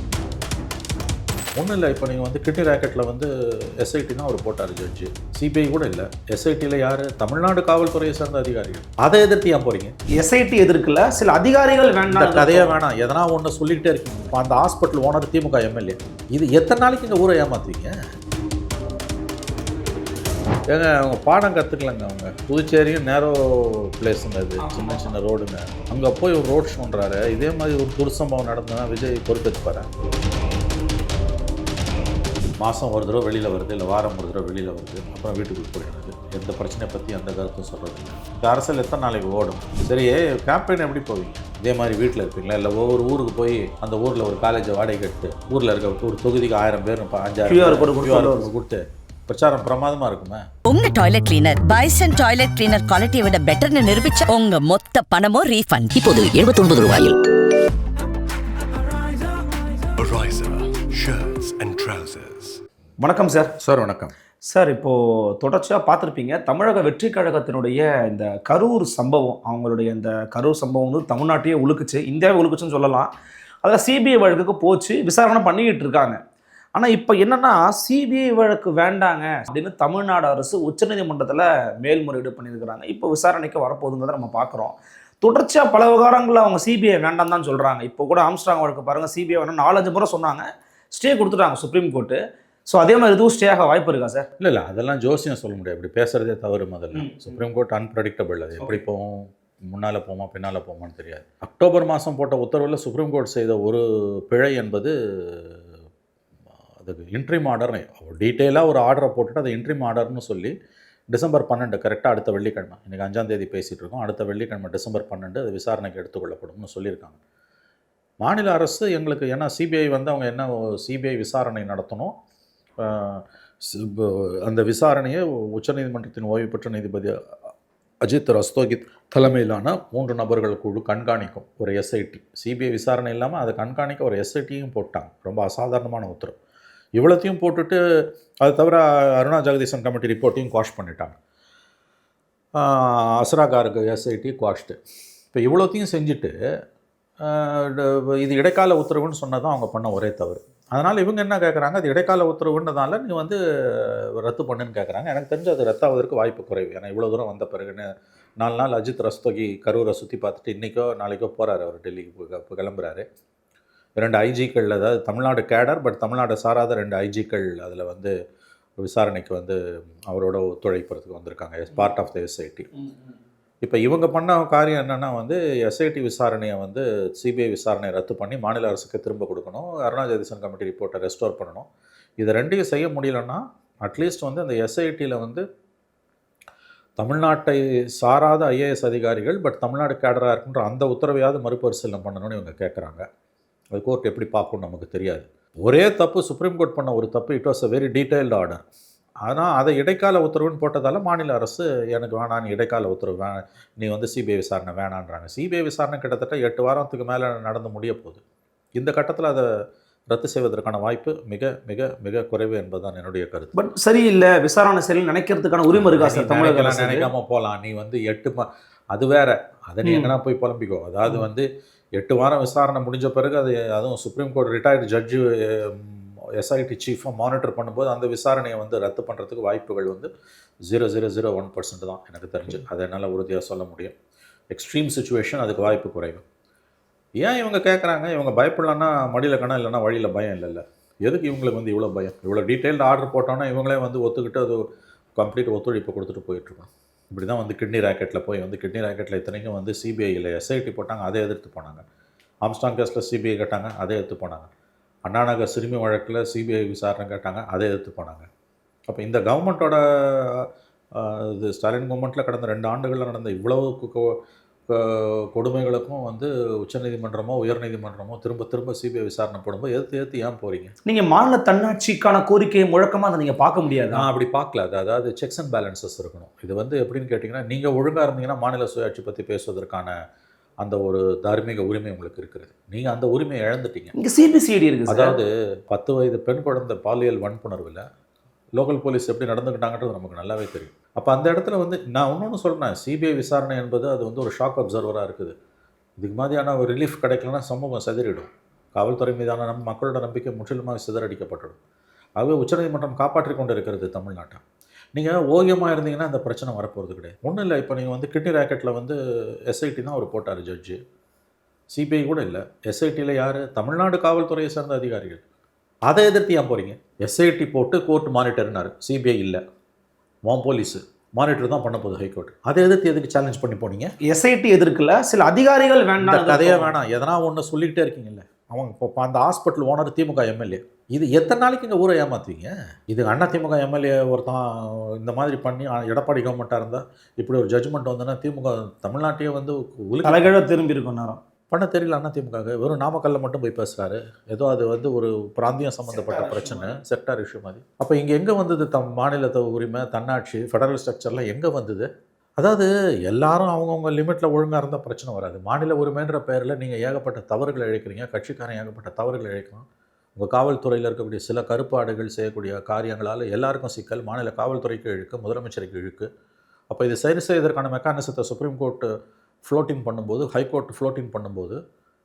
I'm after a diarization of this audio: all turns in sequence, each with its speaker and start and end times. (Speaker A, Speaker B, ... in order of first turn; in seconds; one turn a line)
Speaker A: 1.6-3.3
Speaker A: 3.8-9.9
Speaker B: 10.1-12.8
Speaker A: 12.1-17.9
Speaker A: 20.7-29.9
Speaker B: 24.6-25.1
Speaker A: 32.6-50.4
Speaker B: 47.5-48.5
Speaker C: 50.6-57.2
Speaker D: 60.0-62.6
Speaker B: 63.0-63.5
Speaker A: 63.6-64.1
Speaker B: 64.5-73.1
Speaker B: 73.6-76.2
Speaker B: 76.7-94.3
Speaker A: 94.4-105.6
Speaker B: 96.9-97.3
Speaker A: 106.8-110.5
Speaker A: 111.1-117.2
Speaker A: 118.2-122.1
Speaker A: 122.8-127.1
Speaker A: 128.0-136.3
Speaker A: 136.9-137.8
Speaker A: 138.4-141.1
Speaker A: 142.6-144.8
Speaker A: 145.3-146.3
Speaker A: 147.2-163.1
Speaker A: 164.0-168.1
Speaker A: 168.8-172.7
Speaker A: 173.6-181.7
Speaker A: 182.2-185.4
Speaker A: 187.0-193.0
Speaker A: 193.7-198.6
Speaker A: 199.2-208.2
Speaker A: 208.8-209.5
Speaker A: 210.1-213.5
Speaker B: 213.5-217.1
Speaker A: 215.7-230.1
Speaker B: 219.8-220.1
Speaker A: 230.7-233.9
Speaker A: 234.5-236.2
Speaker A: 237.2-244.6
Speaker A: 245.2-251.8
Speaker A: 252.4-254.5
Speaker A: 255.1-258.3
Speaker A: 258.9-264.1
Speaker A: 264.7-270.7
Speaker B: 270.9-274.1
Speaker A: 273.9-279.9
Speaker A: 280.6-283.9
Speaker B: 283.9-285.2
Speaker A: 284.9-287.9
Speaker A: 288.6-295.3
Speaker A: 296.0-301.6
Speaker A: 302.2-304.4
Speaker A: 304.9-309.0
Speaker A: 309.5-310.8
Speaker A: 311.7-315.2
Speaker A: 315.9-319.4
Speaker A: 320.2-323.9
Speaker B: 324.0-326.7
Speaker A: 326.0-340.3
Speaker B: 340.0-341.2
Speaker A: 341.5-359.6
Speaker B: 345.9-346.8
Speaker A: 360.1-366.1
Speaker A: 366.7-368.9
Speaker A: 369.4-371.6